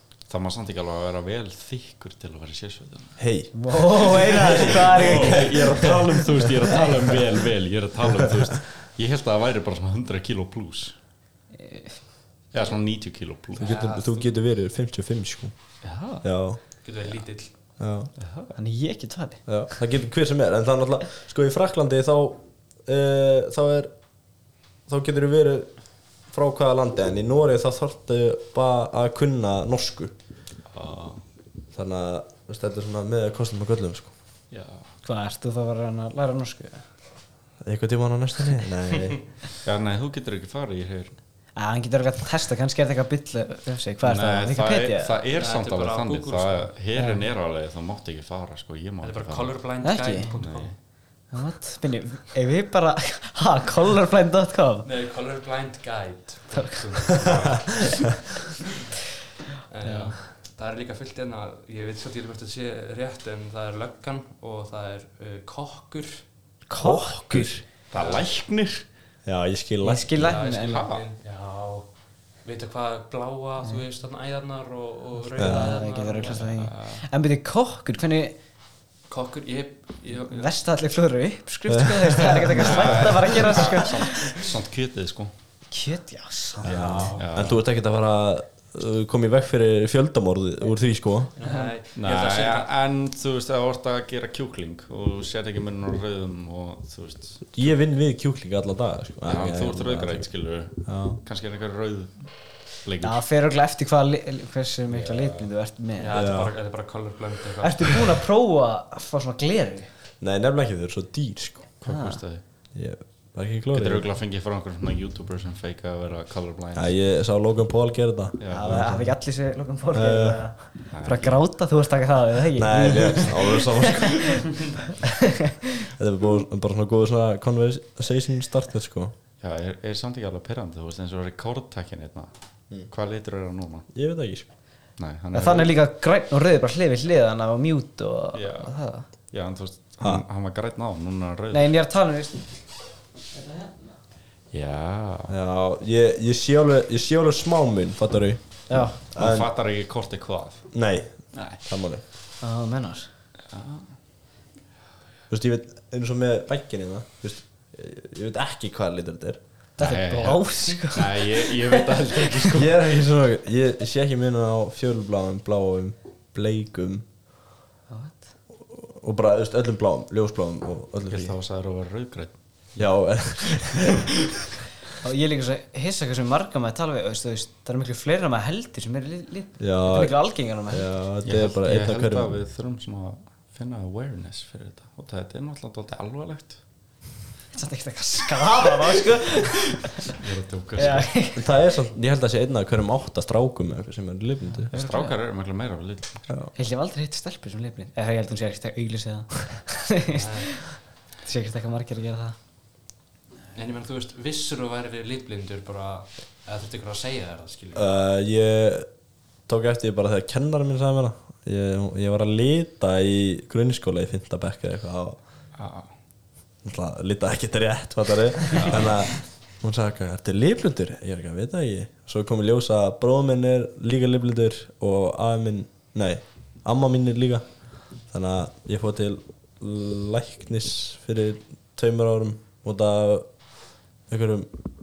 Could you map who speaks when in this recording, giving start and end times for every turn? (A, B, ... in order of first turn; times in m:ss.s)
0:00.3-0:03.2 A
0:03.2-0:06.8 B
0:03.5-0:05.9 C
0:04.4-0:10.9 A
0:11.6-0:11.9 C
0:12.5-0:13.8 A
0:13.6-0:15.5 B
0:13.6-0:14.2 D
0:15.8-0:16.2 A
0:16.2-0:16.6 B
0:16.8-0:17.5 D
0:17.8-0:18.1 B
0:18.2-0:18.5 A
0:18.5-0:19.4 C
0:19.5-0:23.9 B
0:24.9-0:25.7 B
0:26.3-0:30.1 B
0:30.7-0:31.2 A
0:31.7-0:34.1 B
0:34.5-0:34.9 A
0:35.0-0:36.8 C
0:37.6-0:39.2 B
0:39.6-0:41.1 A
0:41.6-0:45.1 C
0:44.0-0:49.7 A
0:45.4-0:46.7 D
0:49.0-0:50.7 D
0:49.8-0:50.3 C
0:50.4-0:50.7 A
0:51.3-0:54.8 C
0:54.8-0:58.0 D
0:59.7-1:06.2 D
0:59.8-1:00.1 C
1:06.7-1:07.6 C
1:06.8-1:07.5 B
1:07.9-1:08.8 A
1:07.9-1:08.2 D
1:09.2-1:10.2 B
1:09.8-1:10.9 C
1:10.2-1:16.4 D
1:10.6-1:11.0 A
1:15.4-1:18.3 C
1:15.4-1:15.7 B
1:16.3-1:17.0 A
1:19.1-1:20.5 D
1:20.3-1:24.3 C
1:21.7-1:22.2 B
1:22.6-1:25.3 A
1:25.7-1:27.1 C
1:26.6-1:31.3 B
1:26.7-1:27.6 A
1:27.0-1:27.3 D
1:31.4-1:32.7 D
1:31.9-1:37.7 A
1:37.5-1:41.2 B
1:39.2-1:43.2 A
1:43.0-1:46.1 C
1:44.9-1:45.5 A
1:46.0-1:47.9 D
1:46.1-1:46.5 B
1:47.6-1:49.9 C
1:50.2-1:51.7 B
1:51.8-1:52.4 A
1:51.8-1:52.2 C
1:52.7-1:54.0 B
1:53.7-1:57.0 A
1:56.7-1:59.2 B
1:58.4-1:58.9 A
1:58.5-2:04.3 C
1:59.9-2:00.4 B
2:00.9-2:01.4 A
2:02.6-2:04.4 B
2:06.0-2:09.1 B
2:09.4-2:12.3 A
2:12.8-2:13.9 A
2:13.9-2:14.4 B
2:15.0-2:15.7 A
2:15.3-2:19.0 C
2:18.3-2:21.8 A
2:21.5-2:22.6 C
2:23.3-2:23.9 C
2:24.5-2:25.3 A
2:25.3-2:29.5 B
2:28.7-2:29.0 C
2:29.1-2:30.7 A
2:30.7-2:32.0 B
2:31.3-2:31.6 A
2:32.4-2:33.1 C
2:33.5-2:33.9 A
2:35.3-2:39.4 B
2:39.8-2:42.3 C
2:39.8-2:42.7 A
2:42.5-2:47.0 B
2:47.9-2:48.3 C
2:48.7-2:51.3 B
2:51.1-2:52.8 A
2:52.8-2:54.0 B
2:55.0-3:00.8 C
2:59.6-3:02.3 B
3:01.2-3:06.6 A
3:07.5-3:09.9 C
3:10.2-3:11.2 A
3:10.8-3:11.4 C
3:11.3-3:14.7 B
3:14.7-3:15.1 C
3:14.7-3:16.3 A
3:16.5-3:22.3 C
3:20.1-3:21.0 D
3:23.5-3:27.9 D
3:27.7-3:28.9 B
3:29.4-3:35.2 B
3:35.6-3:35.9 A
3:36.6-3:53.5 B
3:54.1-3:54.5 B